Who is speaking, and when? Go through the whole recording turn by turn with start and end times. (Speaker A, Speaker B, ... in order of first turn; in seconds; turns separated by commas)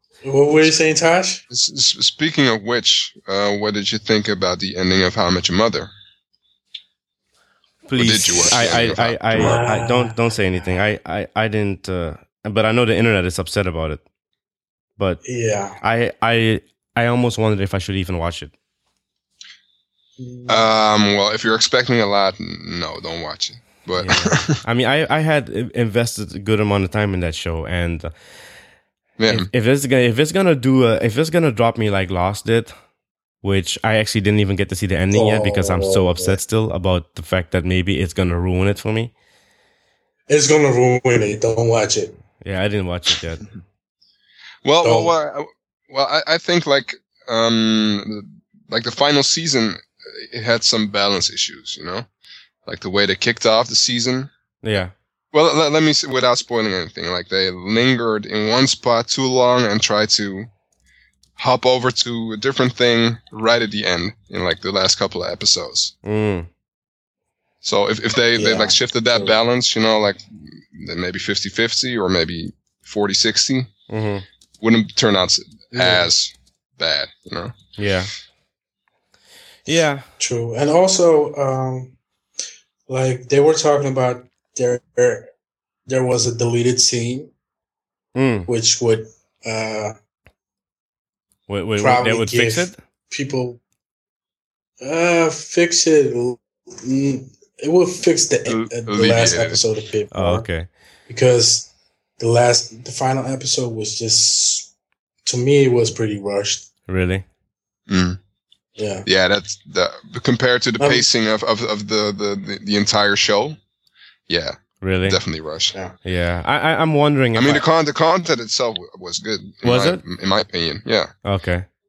Speaker A: 0.2-1.4, Speaker B: 1.5-5.9, Speaker C: 7.9-14.0, Speaker B: 8.0-9.6, Speaker A: 9.3-10.2, Speaker A: 15.2-15.8, Speaker C: 15.8-18.5, Speaker A: 20.2-20.7, Speaker B: 20.5-24.6, Speaker C: 24.0-28.1, Speaker B: 29.2-29.5, Speaker C: 29.3-32.7, Speaker C: 33.4-39.1, Speaker A: 35.1-36.4, Speaker A: 40.3-42.2, Speaker C: 42.4-43.5, Speaker B: 44.6-52.1, Speaker A: 44.8-45.1, Speaker B: 52.7-54.3, Speaker C: 54.6-54.9, Speaker B: 55.3-60.5, Speaker B: 61.4-65.9, Speaker C: 66.0-66.5, Speaker B: 67.6-73.7, Speaker A: 68.3-69.4, Speaker C: 73.9-74.2, Speaker B: 74.6-77.5, Speaker A: 75.7-76.1, Speaker C: 77.8-78.1, Speaker C: 79.7-80.1, Speaker A: 80.2-82.0, Speaker A: 82.9-85.3, Speaker A: 85.9-87.3, Speaker C: 88.2-88.5, Speaker A: 88.5-90.0, Speaker C: 91.5-92.8, Speaker A: 91.8-93.6, Speaker A: 94.8-100.5, Speaker B: 98.5-99.6, Speaker C: 100.1-100.7, Speaker A: 101.1-104.7, Speaker A: 105.2-106.7, Speaker C: 106.9-107.2, Speaker B: 107.9-108.2, Speaker A: 108.8-109.1, Speaker B: 109.0-113.6, Speaker A: 110.8-111.1, Speaker B: 114.3-115.8, Speaker C: 114.8-115.2, Speaker C: 116.0-117.7, Speaker B: 117.3-121.1, Speaker C: 119.6-120.0, Speaker C: 121.2-121.7